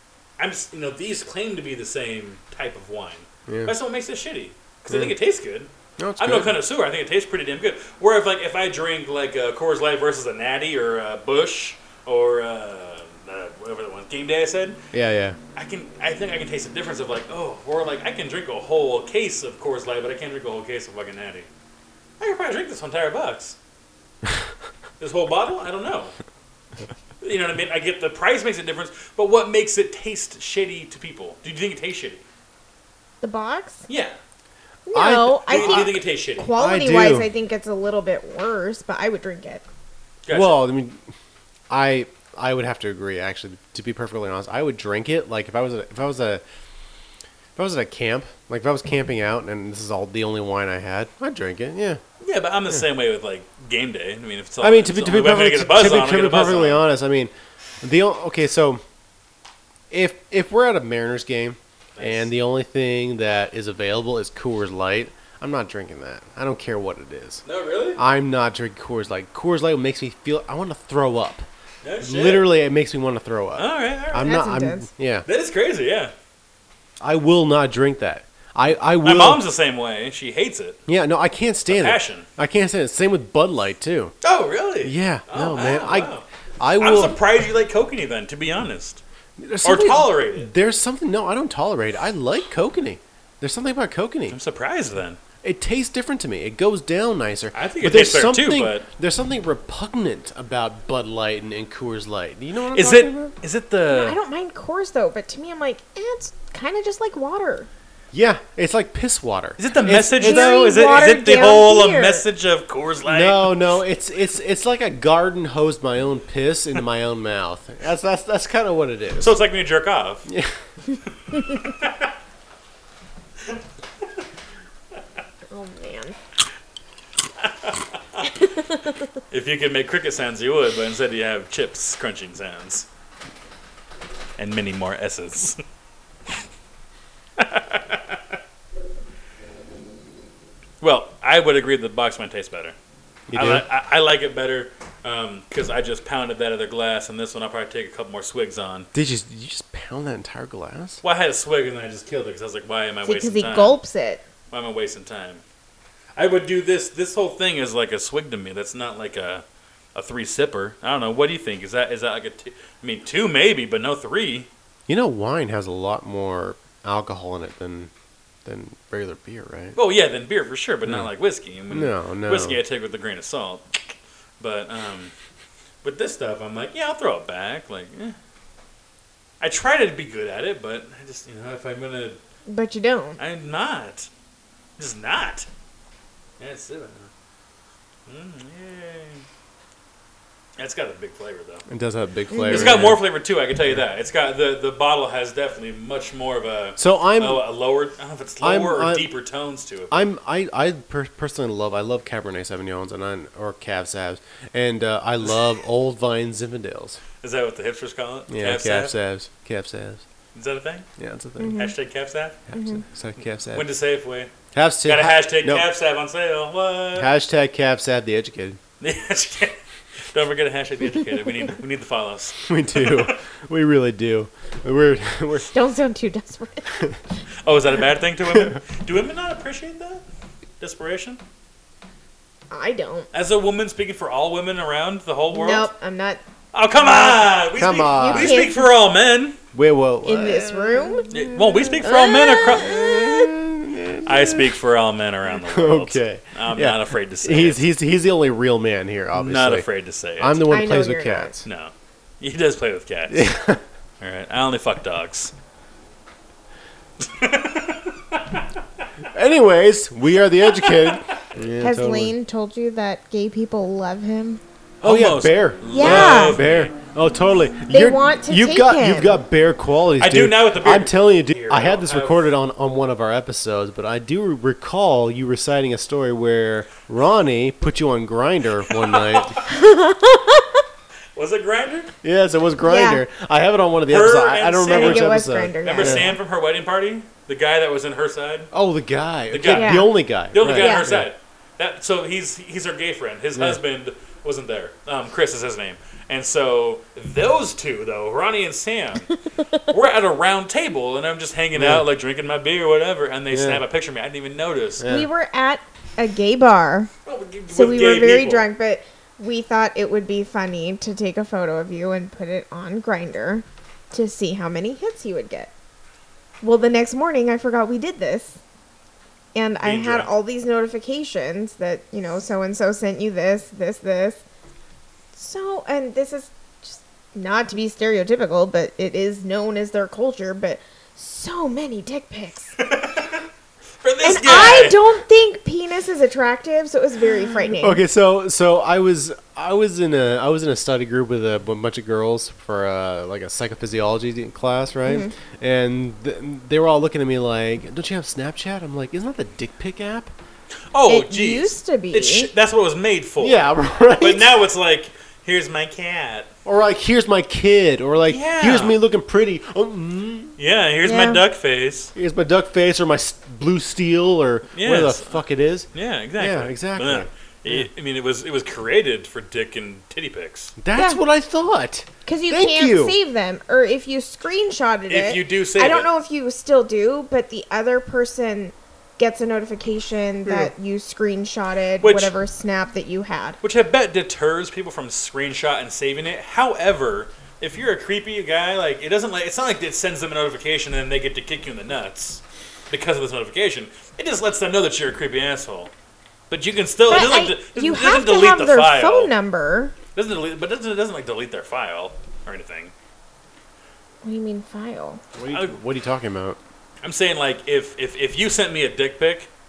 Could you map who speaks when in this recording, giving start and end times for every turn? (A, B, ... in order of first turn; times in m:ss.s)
0:00.4-0:14.8 A
0:03.5-0:03.7 B
0:04.9-0:05.1 B
0:06.0-0:06.5 B
0:14.9-0:15.4 B
0:15.5-0:21.5 A
0:22.2-0:23.6 A
0:25.0-0:26.1 A
0:27.2-0:32.2 A
0:33.2-0:33.9 C
0:33.9-0:34.2 A
0:34.9-0:39.6 C
0:34.9-0:36.0 B
0:35.5-0:36.5 A
0:36.6-0:37.3 B
0:40.2-0:40.6 A
0:40.3-0:41.0 B
0:41.7-0:46.4 B
0:47.6-0:52.0 B
0:52.2-0:56.8 A
0:54.6-0:58.8 B
0:59.9-1:07.4 B
1:02.0-1:02.3 A
1:07.4-1:08.0 A
1:08.0-1:11.4 B
1:11.8-1:12.5 A
1:12.0-1:15.2 B
1:13.6-1:14.4 A
1:14.2-1:14.9 C
1:15.2-1:16.1 A
1:17.0-1:19.4 B
1:19.0-1:20.8 A
1:20.9-1:24.1 B
1:21.7-1:22.2 A
1:24.2-1:26.2 A
1:24.8-1:27.2 B
1:26.8-1:29.0 A
1:29.4-1:34.4 B
1:29.6-1:30.5 A
1:34.3-1:35.2 A
1:35.4-1:43.3 B
1:37.5-1:38.9 A
1:42.7-1:44.2 A
1:43.9-1:47.7 C
1:48.1-1:50.6 B
1:49.6-1:53.6 A
1:50.2-1:52.2 C
1:53.0-1:59.4 B
1:59.2-2:00.2 A
2:00.3-2:00.5 B
2:01.4-2:02.0 A
2:05.5-2:06.2 C
2:07.4-2:08.3 A
2:08.3-2:09.0 C
2:09.3-2:12.9 A
2:14.4-2:15.6 A
2:17.4-2:18.2 A
2:20.8-2:22.7 A
2:23.3-2:23.6 B
2:23.3-2:28.9 A
2:28.9-2:31.0 B
2:31.0-2:33.8 A
2:33.0-2:34.2 C
2:34.5-2:35.4 A
2:36.2-2:39.4 A
2:39.9-2:44.5 A
2:44.9-2:47.9 B
2:48.4-2:49.8 B
2:49.7-2:55.1 A
2:51.7-2:52.6 B
2:55.8-2:58.2 A
2:59.4-3:02.2 A
3:02.5-3:03.2 C
3:03.2-3:04.1 A
3:04.8-3:05.5 A
3:06.4-3:07.1 A
3:08.1-3:09.2 A
3:10.6-3:11.6 A
3:11.7-3:13.0 B
3:12.3-3:12.8 C
3:12.5-3:20.0 A
3:16.8-3:17.4 B
3:18.4-3:19.0 B
3:19.9-3:27.0 B
3:27.2-3:28.9 A
3:28.3-3:30.0 B
3:30.3-3:30.9 A
3:31.0-3:31.6 B
3:31.4-3:31.7 C
3:31.5-3:32.5 A
3:32.5-3:33.6 B
3:32.5-3:32.8 C
3:33.5-3:34.3 A
3:34.5-3:35.7 B
3:34.8-3:37.1 A
3:37.0-3:38.6 B
3:38.8-3:39.6 A
3:40.1-3:43.2 A
3:42.4-3:45.5 B
3:45.5-3:46.8 C
3:47.4-3:50.0 A
3:50.6-3:51.2 A
3:52.5-3:53.1 C
3:53.1-3:55.7 A
3:55.3-3:56.2 C
3:56.5-3:59.4 A
3:56.8-3:57.2 C
3:57.6-3:58.5 B
3:57.9-3:58.7 C
3:59.5-4:01.1 B
4:00.0-4:03.3 C
4:01.1-4:02.8 A
4:02.4-4:04.5 B
4:04.0-4:07.6 A
4:05.4-4:09.6 B
4:09.1-4:10.4 A
4:10.2-4:11.4 B
4:10.5-4:11.3 C
4:11.4-4:13.3 A
4:13.1-4:13.6 B
4:14.0-4:15.3 A
4:17.0-4:18.4 A
4:19.1-4:22.1 B
4:20.5-4:21.0 A
4:21.6-4:24.4 C
4:24.8-4:26.7 A
4:24.8-4:39.4 B
4:25.7-4:26.4 C
4:27.7-4:29.2 C
4:30.0-4:32.3 A
4:38.6-4:39.5 A
4:39.5-4:40.6 C
4:41.1-4:41.9 A
4:42.0-4:46.2 B
4:42.6-4:43.0 C
4:43.9-4:45.1 A
4:44.7-4:46.1 C
4:45.6-4:48.5 A
4:48.5-4:51.1 B
4:49.3-4:59.1 A
4:49.5-4:49.9 C
4:50.5-4:50.9 C
4:59.4-4:59.6 C
4:59.7-5:04.8 A
5:01.5-5:01.8 B
5:03.3-5:03.6 B
5:04.8-5:05.1 B
5:04.9-5:06.9 C
5:07.0-5:08.5 A
5:07.5-5:15.5 C
5:16.4-5:18.4 C
5:19.3-5:24.2 C
5:19.6-5:20.1 A
5:25.1-5:32.6 C
5:32.6-5:33.2 A
5:33.8-5:34.9 A
5:34.0-5:37.8 C
5:37.6-5:50.1 B
5:44.8-5:45.1 C
5:50.7-5:56.3 A
5:50.9-5:52.3 C
5:53.2-5:54.4 B
5:56.4-6:00.4 B
5:58.1-5:58.8 A
6:00.4-6:01.9 A
6:00.8-6:01.2 C
6:01.9-6:07.6 B
6:04.5-6:10.5 A
6:10.6-6:13.0 B
6:10.7-6:11.0 C
6:12.0-6:23.4 C
6:14.9-6:15.9 A
6:20.2-6:20.5 B
6:21.8-6:22.1 A
6:23.4-6:35.7 A
6:36.3-6:39.1 A
6:36.9-6:39.7 C
6:39.9-6:42.7 A
6:44.0-6:45.0 C
6:45.2-6:46.4 B
6:46.8-6:49.3 A